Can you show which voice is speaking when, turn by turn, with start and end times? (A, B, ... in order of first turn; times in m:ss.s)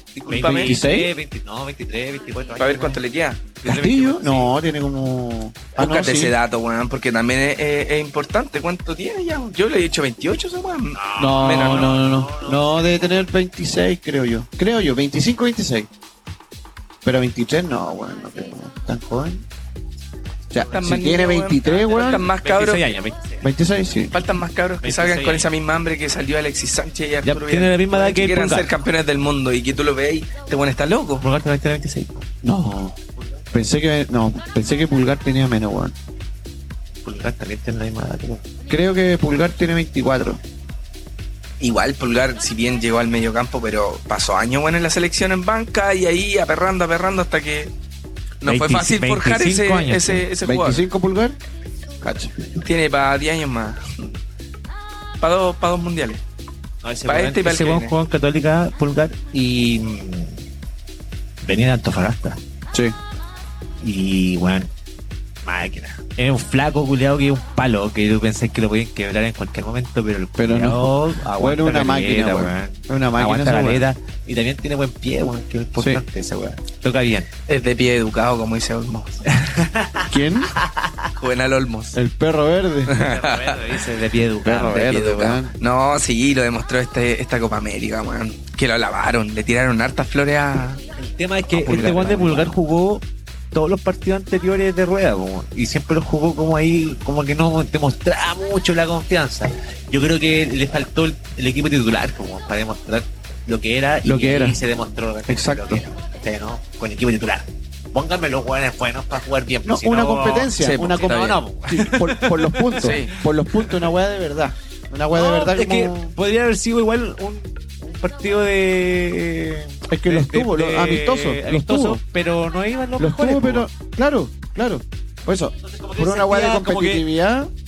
0:00.1-0:00.8 A
0:00.3-0:03.0 B
0:00.4-0:01.1 C
0:02.6-0:03.4 A
0:03.6-0:04.5 B
0:03.6-0:06.3 C
0:05.8-0:12.0 A
0:10.9-0:13.2 B
0:11.2-0:15.9 C
0:17.0-0:19.4 C
0:20.5-0:22.3 C
0:20.7-0:22.9 A
0:22.1-0:23.5 B
0:23.4-0:24.1 C
0:24.1-0:31.2 A
0:24.8-0:25.5 B
0:27.2-0:28.7 B
0:31.2-0:32.3 B
0:32.4-0:33.0 C
0:33.2-0:33.4 B
0:33.5-0:35.9 C
0:37.0-0:38.4 B
0:38.7-0:40.4 C
0:41.6-0:47.7 A
0:48.4-0:50.8 A
0:48.4-0:50.2 B
0:50.4-0:51.4 C
0:52.0-0:52.3 C
0:52.5-0:54.1 A
0:55.2-0:56.2 A
0:56.8-1:00.4 B
0:57.0-0:57.9 A
1:01.4-1:02.4 B
1:03.8-1:04.7 B
1:05.4-1:17.3 B
1:10.4-1:13.9 C
1:15.8-1:16.0 C
1:17.5-1:19.3 A
1:19.3-1:21.1 B
1:20.1-1:20.5 C
1:21.2-1:22.0 A
1:21.9-1:23.0 C
1:22.9-1:23.6 A
1:22.9-1:24.9 B
1:24.4-1:25.5 C
1:24.7-1:30.8 A
1:31.0-1:53.9 B
1:31.6-1:32.5 C
1:31.6-1:32.3 A
1:44.0-1:44.6 C
1:45.3-1:45.8 C
1:49.6-1:56.1 C
1:50.6-1:51.4 A
1:52.8-1:53.1 A
1:55.1-2:03.7 B
1:59.9-2:02.0 C
2:03.0-2:07.5 C
2:05.6-2:07.0 B